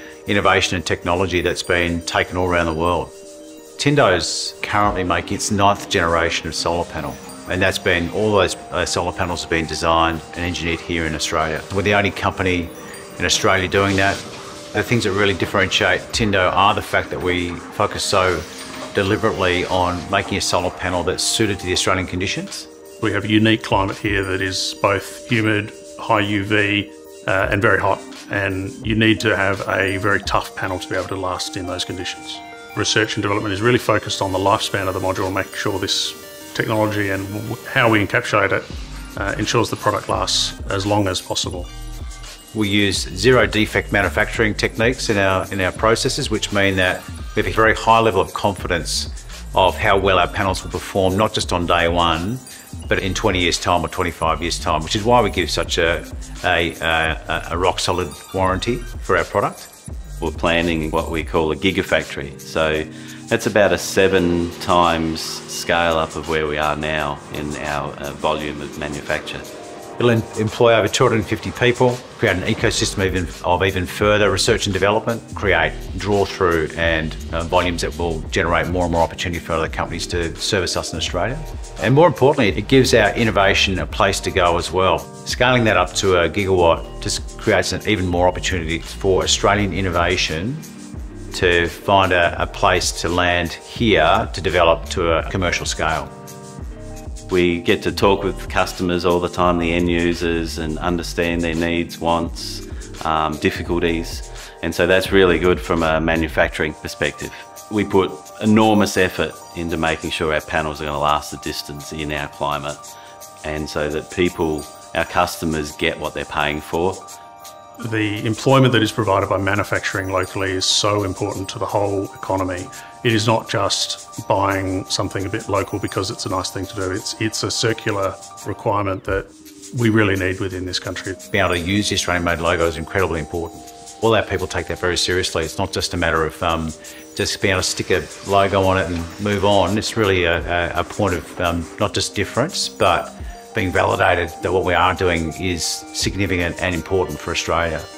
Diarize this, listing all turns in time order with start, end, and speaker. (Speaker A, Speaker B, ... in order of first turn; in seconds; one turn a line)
Speaker A: 0.3-3.1
Speaker A: 3.8-14.2
Speaker A: 14.7-22.7
Speaker B: 23.0-41.7
Speaker A: 42.5-59.7
Speaker C: 60.2-69.5
Speaker A: 70.0-90.7
Speaker A: 91.3-96.1
Speaker C: 97.3-112.8
Speaker C: 113.4-117.0
Speaker B: 117.8-131.2
Speaker A: 131.3-147.9